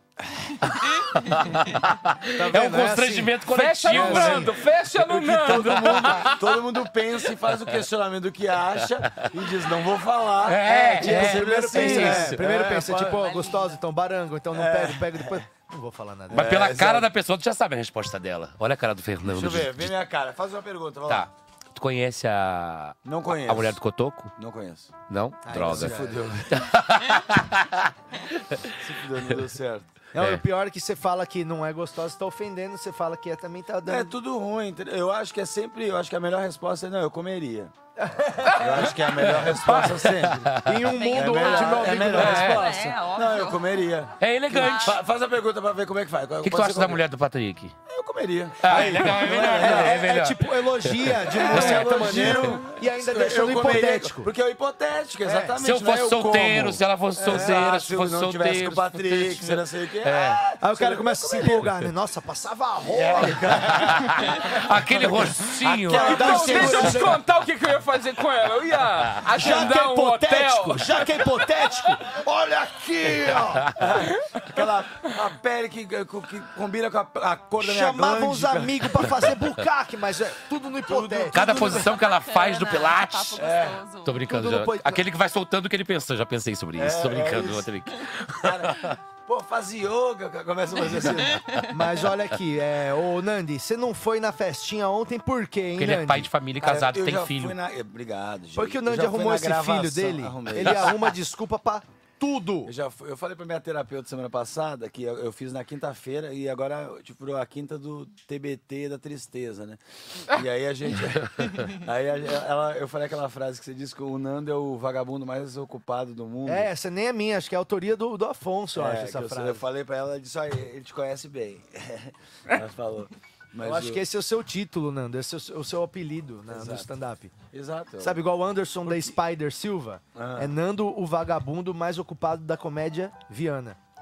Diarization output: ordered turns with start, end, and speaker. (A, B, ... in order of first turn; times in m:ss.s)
0:00.6-0:04.5 A
0:02.4-0:04.6 B
0:03.5-0:06.4 C
0:05.0-0:13.2 D
0:05.4-0:06.5 A
0:10.4-0:12.6 A
0:11.0-0:16.5 B
0:13.0-0:13.8 E
0:14.5-0:15.4 D
0:16.3-0:17.1 D
0:16.3-0:20.0 A
0:19.2-0:21.3 D
0:21.1-0:24.3 A
0:23.0-0:23.8 D
0:24.4-0:24.9 D
0:25.1-0:27.9 A
0:25.5-0:26.2 B
0:25.5-0:26.7 D
0:28.8-0:29.9 D
0:30.1-0:34.1 B
0:33.9-0:37.7 D
0:38.0-0:38.6 B
0:38.6-0:40.6 D
0:39.2-0:40.9 A
0:40.6-0:42.7 B
0:40.9-0:43.8 E
0:41.1-0:47.0 D
0:42.2-0:42.7 A
0:44.2-0:45.0 A
0:44.5-0:45.0 E
0:46.4-0:47.8 A
0:47.9-0:50.1 D
0:48.6-0:52.6 A
0:49.1-0:54.3 B
0:51.3-1:01.7 D
0:55.2-0:55.6 B
0:55.6-1:00.4 A
0:57.2-0:57.6 B
1:00.6-1:04.6 B
1:02.9-1:06.8 A
1:02.9-1:07.2 D
1:05.9-1:11.4 C
1:06.0-1:07.2 B
1:09.3-1:13.7 B
1:13.8-1:19.2 D
1:17.6-1:21.8 B
1:20.9-1:21.8 D
1:21.3-1:23.5 A
1:21.6-1:24.3 E
1:23.4-1:23.8 D
1:24.0-1:29.0 A
1:24.3-1:25.0 B
1:26.8-1:27.7 D
1:28.4-1:31.4 D
1:31.7-1:36.3 B
1:35.8-1:37.6 A
1:36.6-1:41.1 D
1:38.6-1:42.7 B
1:42.7-1:56.7 D
1:56.5-1:59.6 B
1:58.8-2:04.0 D
2:03.6-2:07.4 B
2:06.5-2:06.9 D
2:07.5-2:08.2 D
2:08.0-2:13.8 B
2:10.2-2:10.5 D